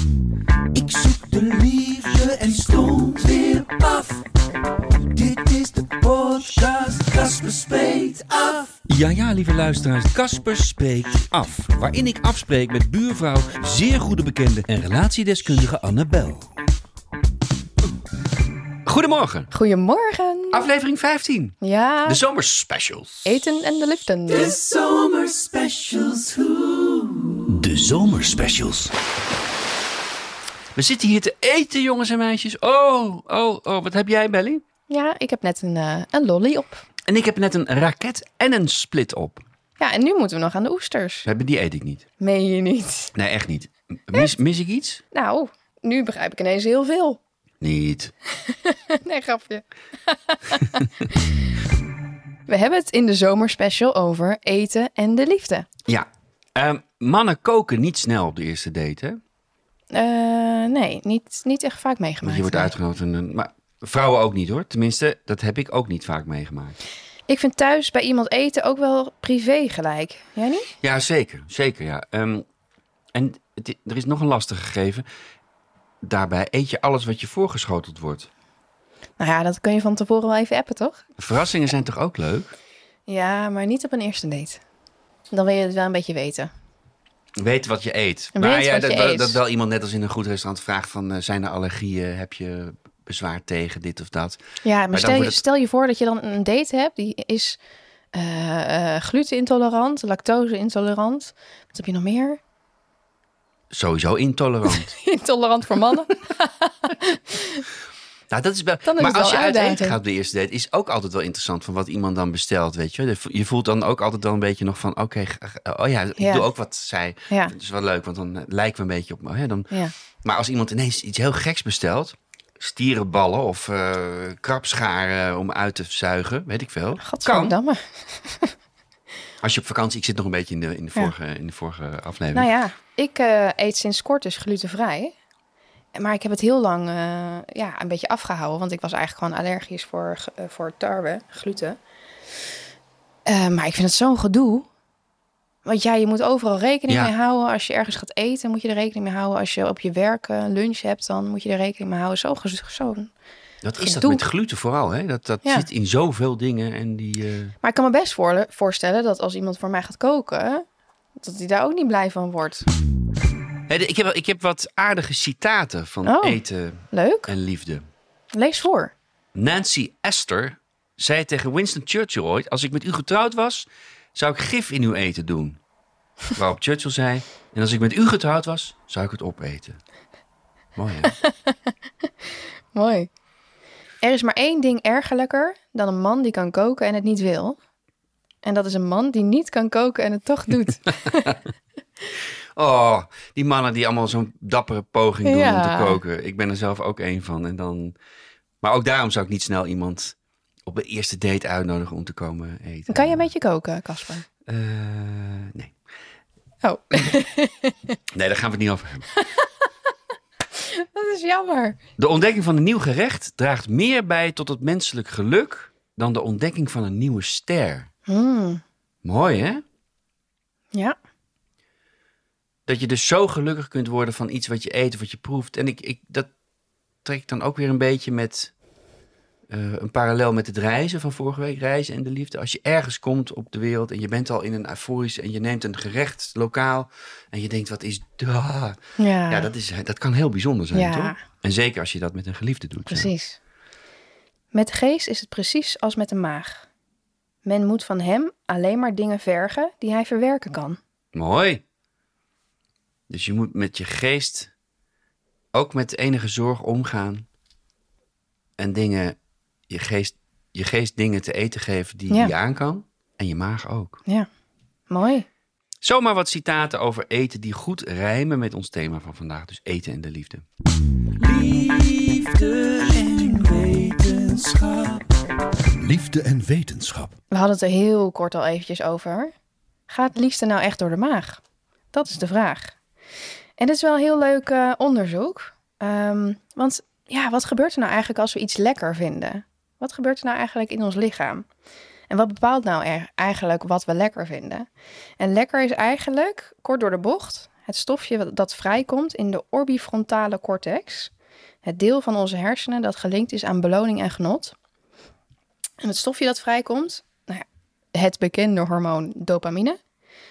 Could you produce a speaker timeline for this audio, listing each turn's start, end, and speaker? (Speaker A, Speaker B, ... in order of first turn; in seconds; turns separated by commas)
Speaker A: 0.7-4.2, Speaker A: 5.0-8.8, Speaker B: 8.9-16.5, Speaker B: 18.8-19.5, Speaker C: 19.5-20.6, Speaker B: 20.5-23.5, Speaker C: 21.6-22.2, Speaker C: 23.2-24.5, Speaker A: 24.3-28.9, Speaker B: 28.0-28.7, Speaker B: 30.7-34.6, Speaker C: 34.9-36.8, Speaker B: 37.1-39.4, Speaker C: 39.8-41.3, Speaker B: 41.2-42.0, Speaker C: 42.2-43.1, Speaker B: 43.1-45.0, Speaker C: 45.1-47.2, Speaker B: 47.6-48.1, Speaker C: 48.3-51.2, Speaker C: 52.5-55.7, Speaker B: 55.9-59.2, Speaker C: 59.9-62.7, Speaker B: 62.2-66.8, Speaker C: 67.3-70.7, Speaker B: 70.8-72.5, Speaker B: 73.1-75.0, Speaker B: 76.0-78.3, Speaker C: 79.2-81.0, Speaker B: 81.2-82.5, Speaker C: 83.1-84.6, Speaker C: 85.3-86.5, Speaker B: 87.4-94.4, Speaker C: 88.3-89.4, Speaker C: 94.6-97.6, Speaker B: 94.9-95.4, Speaker C: 98.1-102.4, Speaker B: 103.7-105.0, Speaker C: 104.7-107.7, Speaker B: 108.3-127.5, Speaker C: 108.8-110.0, Speaker C: 116.2-116.5, Speaker C: 127.0-128.5, Speaker B: 129.4-132.5, Speaker C: 132.3-135.1, Speaker C: 135.9-141.8, Speaker C: 143.2-144.7, Speaker C: 145.6-153.1, Speaker B: 153.6-157.5, Speaker C: 153.8-154.2, Speaker C: 157.6-160.6, Speaker C: 161.2-162.7, Speaker B: 163.7-167.8, Speaker C: 166.0-167.3, Speaker C: 168.3-168.9, Speaker B: 169.3-175.6, Speaker B: 176.3-179.8, Speaker B: 180.8-181.2, Speaker C: 181.2-183.1, Speaker C: 184.0-187.6, Speaker C: 188.4-191.4, Speaker B: 192.6-197.9, Speaker C: 195.2-196.0, Speaker B: 198.6-203.3, Speaker C: 202.9-204.2, Speaker B: 204.5-205.7, Speaker C: 206.6-208.0, Speaker B: 208.1-209.1, Speaker C: 209.1-209.9, Speaker C: 210.5-211.8, Speaker B: 212.0-217.9, Speaker C: 218.1-218.6, Speaker B: 219.0-219.6, Speaker B: 222.7-226.3, Speaker B: 227.0-228.5, Speaker B: 229.5-243.1, Speaker C: 239.0-239.5, Speaker C: 240.7-241.2, Speaker C: 242.9-243.4, Speaker C: 244.5-246.7, Speaker C: 247.4-250.8, Speaker B: 251.1-251.6, Speaker B: 253.1-254.5, Speaker B: 255.5-257.2, Speaker B: 258.6-259.2, Speaker B: 259.7-264.0, Speaker C: 264.9-265.2, Speaker B: 265.8-270.4, Speaker A: 271.2-275.0, Speaker A: 275.8-277.1, Speaker C: 277.3-279.3, Speaker C: 279.9-281.4, Speaker C: 281.9-282.8, Speaker C: 283.6-291.4, Speaker C: 292.1-294.7, Speaker C: 295.2-301.1, Speaker C: 301.6-304.5, Speaker C: 305.8-309.8